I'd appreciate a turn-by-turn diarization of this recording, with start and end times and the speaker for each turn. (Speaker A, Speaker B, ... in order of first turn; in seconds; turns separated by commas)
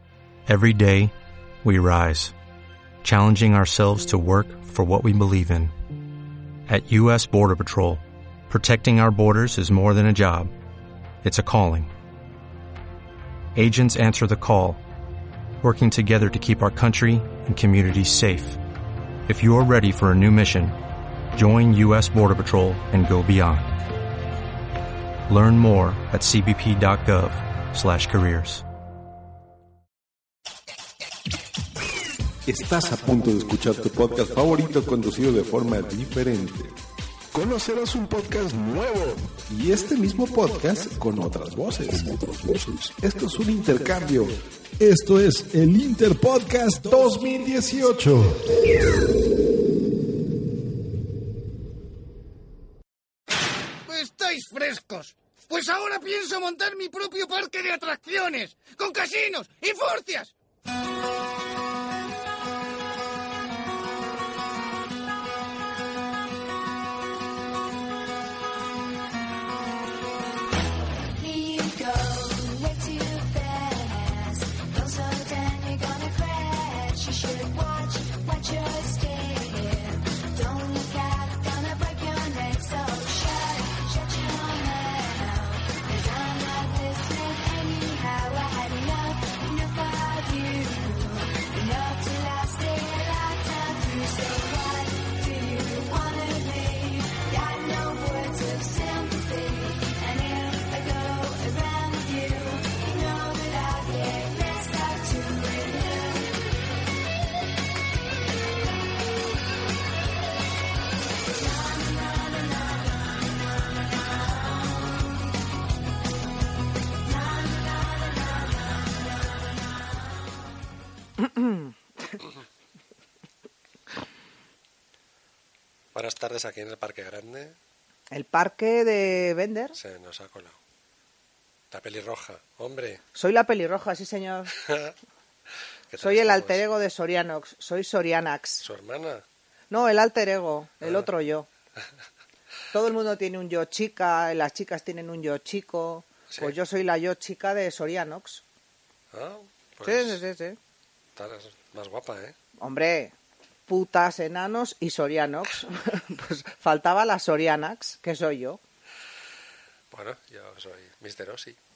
Speaker A: 0.5-1.1, Speaker A: 1.6-2.3, Speaker A: 3.0-5.7, Speaker A: 6.7-10.5, Speaker A: 11.2-11.9, Speaker A: 13.6-14.8, Speaker A: 15.6-18.6, Speaker A: 19.3-20.8, Speaker A: 21.3-23.8, Speaker A: 25.3-28.6, Speaker B: 32.5-36.7, Speaker B: 37.3-48.4, Speaker C: 53.9-60.3, Speaker D: 71.2-106.4, Speaker D: 111.3-115.1, Speaker D: 117.0-119.6, Speaker E: 121.2-122.2, Speaker F: 125.9-127.6, Speaker E: 128.1-129.8, Speaker F: 129.8-130.6, Speaker F: 131.7-133.0, Speaker E: 133.2-134.5, Speaker F: 134.6-134.9, Speaker F: 135.9-136.6, Speaker E: 136.0-138.6, Speaker F: 138.6-139.2, Speaker E: 139.7-141.5, Speaker E: 142.7-148.4, Speaker F: 149.1-150.2, Speaker E: 149.8-150.6, Speaker F: 151.2-152.3, Speaker E: 152.6-153.1, Speaker E: 153.7-158.6, Speaker F: 159.9-161.6